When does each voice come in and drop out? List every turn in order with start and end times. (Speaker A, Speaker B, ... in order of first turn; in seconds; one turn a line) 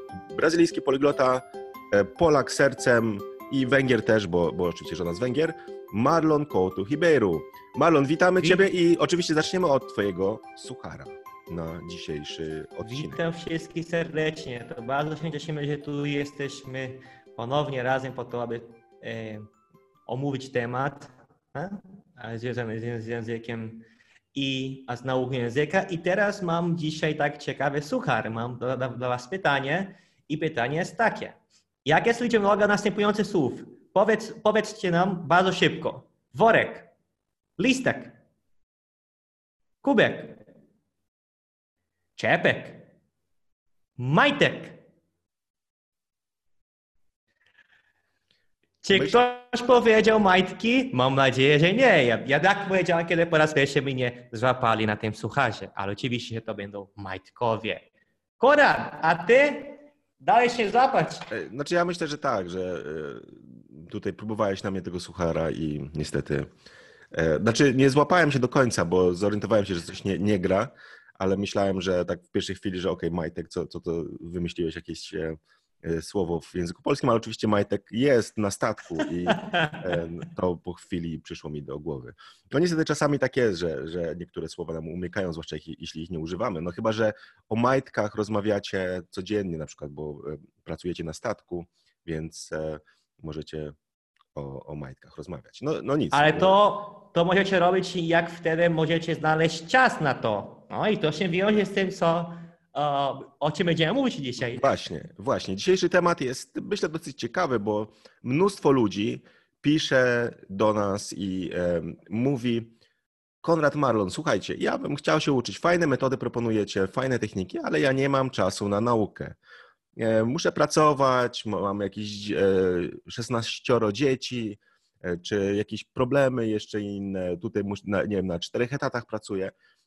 Speaker A: 0.3-13.2
Speaker B: 12.8-19.5
Speaker B: 20.1-36.9
Speaker B: 37.6-38.1
Speaker B: 39.8-40.4
Speaker B: 42.2-42.9
Speaker B: 44.0-44.8
Speaker B: 48.8-57.9
Speaker A: 48.9-49.2
Speaker B: 58.4-61.3
Speaker A: 61.3-66.5
Speaker A: 67.1-93.7
Speaker B: 79.3-79.8
Speaker A: 94.3-96.6
Speaker B: 96.1-104.7
Speaker A: 104.5-112.7
Speaker A: 113.4-119.4
Speaker A: 120.0-129.5